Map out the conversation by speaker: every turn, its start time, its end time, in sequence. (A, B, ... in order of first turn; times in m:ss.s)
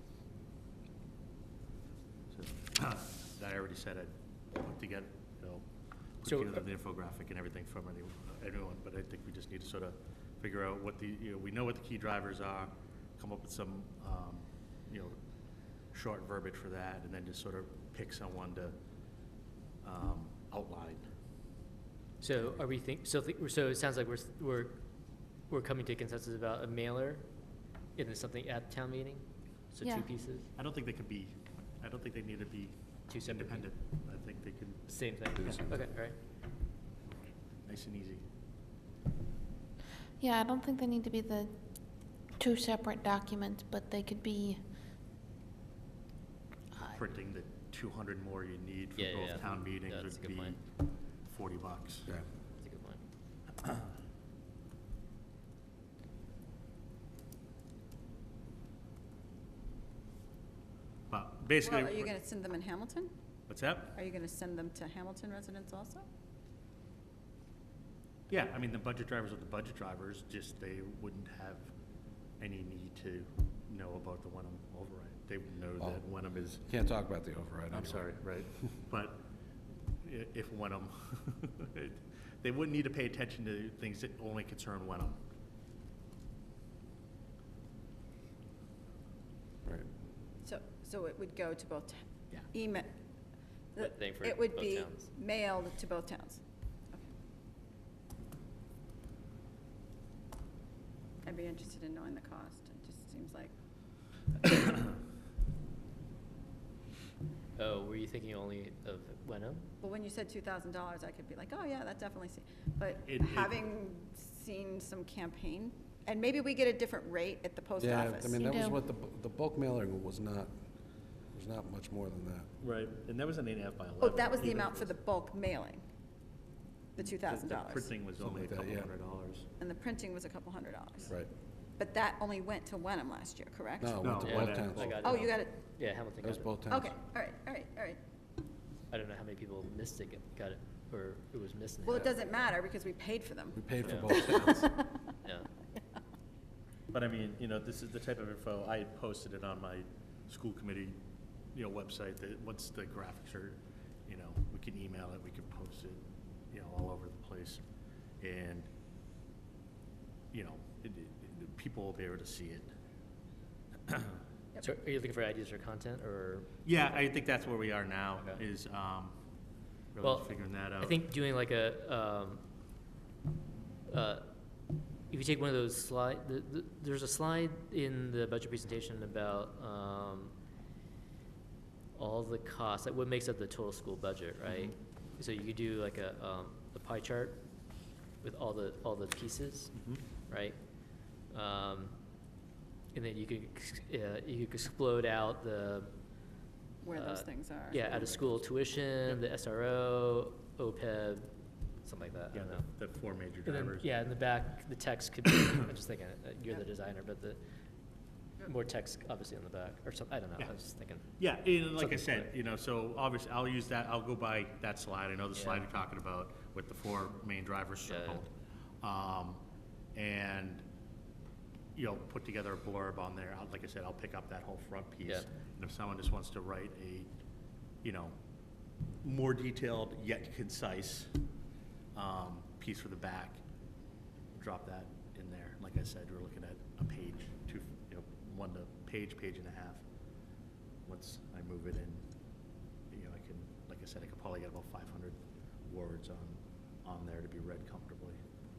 0:02.3-0:05.6 A
0:06.2-0:15.2 A
0:06.2-0:06.6 B
0:15.9-0:18.7 A
0:19.8-0:21.0 A
0:22.2-0:24.8 B
0:25.5-0:27.2 B
0:28.0-0:30.5 B
0:30.6-0:35.6 A
0:33.1-0:33.7 B
0:34.9-0:36.2 B
0:35.4-0:35.8 C
0:37.6-0:38.2 A
0:40.2-0:41.5 D
0:42.4-0:44.6 D
0:46.8-0:50.6 A
0:49.0-0:50.6 B
0:51.2-0:52.1 A
0:52.6-0:53.0 B
1:01.1-1:02.1 A
1:01.6-1:03.1 E
1:03.5-1:03.9 A
1:03.9-1:06.0 E
1:08.3-1:11.7 A
1:12.4-1:16.6 A
1:15.8-1:16.0 C
1:16.6-1:18.1 C
1:17.7-1:19.2 A
1:20.0-1:25.2 A
1:30.4-1:32.9 E
1:33.7-1:37.1 E
1:33.8-1:35.1 B
1:41.2-1:43.5 E
1:47.6-1:49.7 B
1:49.8-1:58.8 E
1:53.0-1:53.6 A
1:57.8-2:00.6 C
2:01.3-2:02.5 C
2:02.6-2:04.9 A
2:04.0-2:05.8 E
2:07.0-2:07.9 E
2:07.1-2:09.5 A
2:08.2-2:08.9 C
2:09.6-2:11.2 E
2:11.8-2:14.1 E
2:13.8-2:15.3 C
2:14.0-2:15.0 A
2:14.2-2:16.5 B
2:14.9-2:15.6 E
2:16.2-2:17.0 C
2:16.7-2:18.0 E
2:18.9-2:22.0 B
2:21.8-2:25.0 E
2:23.5-2:24.8 C
2:23.8-2:24.3 B
2:25.2-2:25.5 B
2:26.9-2:31.0 A
2:31.5-2:37.6 A
2:38.2-2:38.7 A
2:40.3-2:42.7 A
2:44.6-2:46.5 B
2:46.6-2:49.2 A
2:48.2-2:48.4 B
2:49.9-2:51.0 A
2:50.0-2:52.4 B
2:53.9-2:54.3 B
2:55.1-3:00.3 B
3:01.9-3:07.4 B
3:04.4-3:04.7 A
3:08.2-3:09.7 B
3:09.7-3:10.0 A
3:10.3-3:10.6 B
3:11.3-3:12.0 B
3:12.9-3:15.9 B
3:16.8-3:18.4 E
3:16.9-3:21.3 B
3:21.8-3:22.7 B
3:22.3-3:23.9 A
3:23.4-3:27.4 B
3:28.4-3:31.2 B
3:31.2-3:38.3 A
3:31.7-3:32.3 B
3:35.3-3:35.7 B
3:37.8-3:38.2 B
3:38.8-3:39.4 A
3:39.9-3:40.6 A
3:41.7-3:47.1 A
3:47.8-3:48.1 A
3:49.0-3:51.1 A
3:51.9-3:53.4 A
3:54.3-3:59.8 A
4:00.8-4:02.0 A
4:02.9-4:08.2 A